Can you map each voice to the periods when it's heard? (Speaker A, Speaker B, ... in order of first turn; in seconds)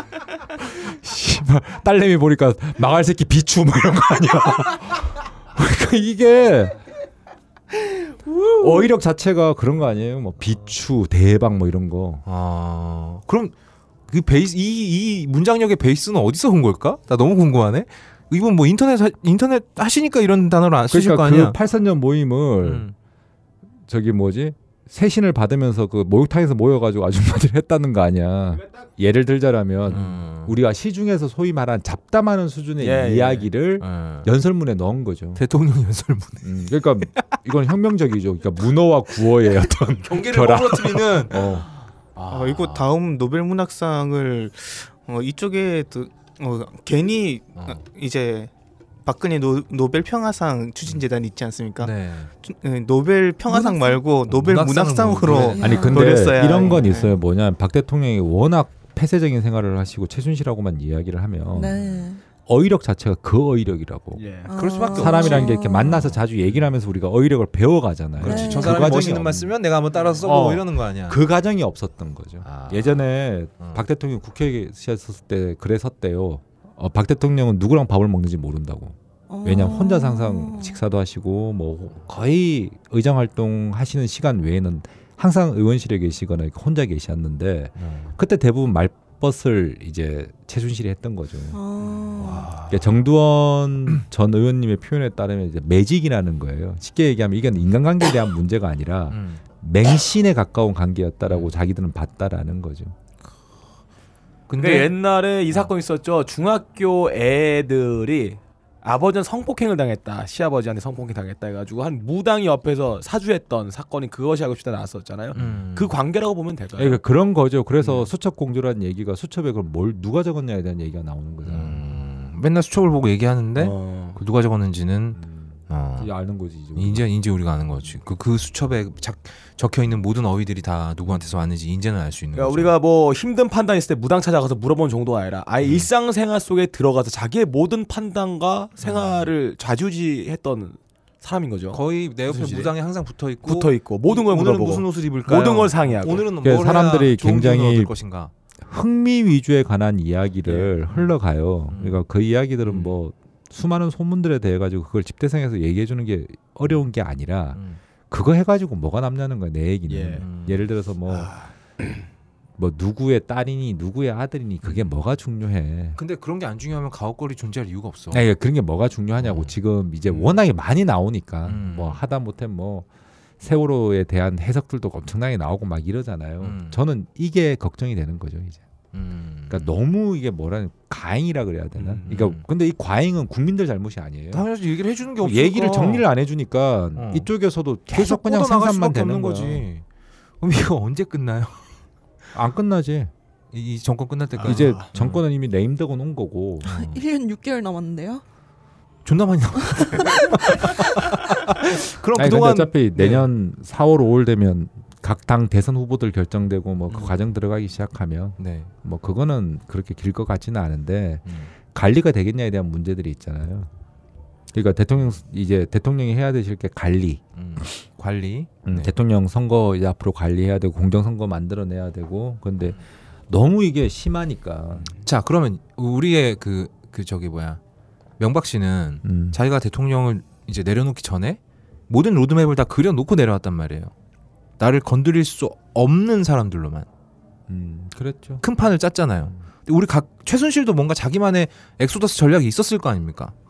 Speaker A: 0.6-6.8, 8.6-12.2, 20.9-22.9, 23.9-35.4, 36.4-41.7, 55.6-61.8, 62.5-64.2, 65.0-69.6, 70.3-91.6, 92.7-102.9, 116.8-121.8, 125.2-127.1, 146.4-147.9, 148.6-161.3, 162.6-166.0, 168.1-172.9, 173.4-178.6, 179.5-184.5, 185.2-189.7, 192.3-193.1, 194.4-196.7, 202.1-213.7, 214.5-217.8, 218.6-224.9, 229.0-229.4, 237.5-238.4
Speaker B: 12.3-13.5, 14.1-21.6, 22.6-22.9, 29.9-30.6, 33.8-34.3, 35.4-36.7, 40.0-41.5, 42.1-42.9, 47.6-47.8, 51.8-52.3, 54.3-55.9, 64.5-66.6, 68.2-71.2, 72.4-73.1, 87.8-88.1, 92.1-92.8, 99.1-99.4, 101.3-101.5, 104.5-104.9, 115.3-115.9, 121.5-126.1, 126.7-132.7, 138.8-139.3, 141.7-148.3, 151.7-152.0, 152.6-152.9, 157.5-157.8, 160.2-160.7, 165.9-168.3, 169.2-169.6, 171.4-172.0, 176.4-176.8, 178.9-179.7, 181.8-182.4, 184.3-186.1, 186.9-187.3, 187.9-189.8, 190.4-191.6, 193.5-195.2, 196.6-197.0, 199.1-203.2, 206.9-207.1, 208.4-208.7, 211.3-211.5, 217.4-218.9, 224.8-227.6, 228.2-233.9, 234.6-236.9, 238.4-243.3
Speaker C: 32.8-33.5, 64.1-64.5, 69.9-70.6, 104.6-117.0, 123.6-124.2, 132.3-142.7, 143.4-146.3, 150.4-150.7, 159.9-160.3, 161.1-161.4, 194.4-194.8
Speaker D: 42.3-48.5, 49.0-57.1
Speaker E: 53.5-54.0, 55.4-56.2, 61.5-62.2, 64.5-66.0, 68.2-68.8, 79.3-80.8, 91.5-92.5, 196.6-198.2, 199.8-200.7